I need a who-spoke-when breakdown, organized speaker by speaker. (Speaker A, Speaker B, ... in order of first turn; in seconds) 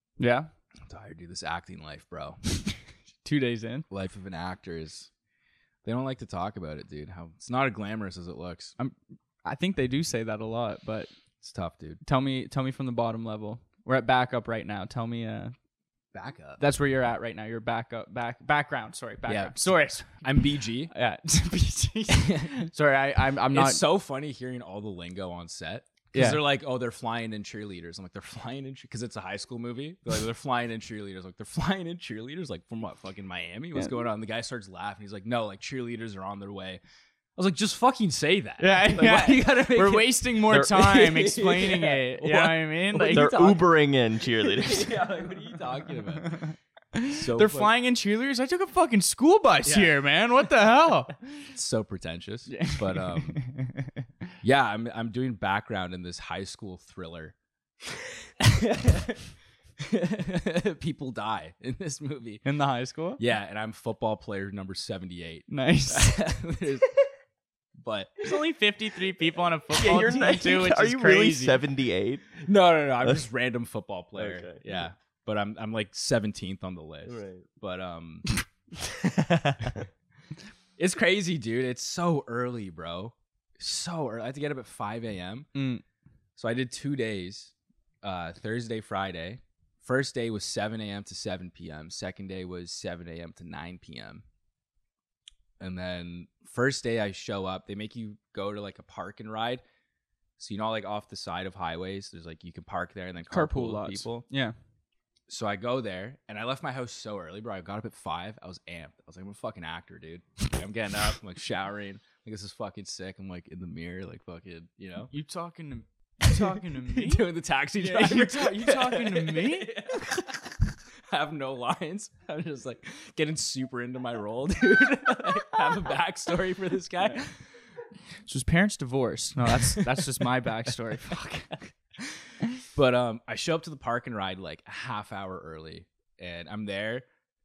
Speaker A: 0.2-0.5, 3.2-3.9, 8.8-11.1, 12.0-15.5, 16.6-23.8, 26.1-26.4, 38.6-43.3, 46.1-51.2, 52.5-54.0, 62.4-63.2, 65.5-66.3, 68.2-71.6, 85.5-85.8, 103.3-104.5, 115.1-119.8, 128.3-131.7
Speaker B: 0.9-2.4, 3.9-5.1, 5.8-8.8, 11.4-12.0, 16.1-16.6, 19.3-20.9, 22.1-22.5, 23.5-36.8, 37.4-46.5, 47.1-47.7, 49.6-50.0, 51.5-53.4, 54.4-57.4, 58.4-59.3, 59.8-62.5, 63.2-66.9, 67.8-68.4, 72.4-78.3, 80.8-85.5, 86.4-94.2, 95.6-99.6, 100.4-104.2, 105.3-115.1, 116.9-127.3, 132.7-137.1
Speaker C: 43.0-45.1, 69.7-72.4, 74.2-74.9, 77.1-77.5, 78.8-79.9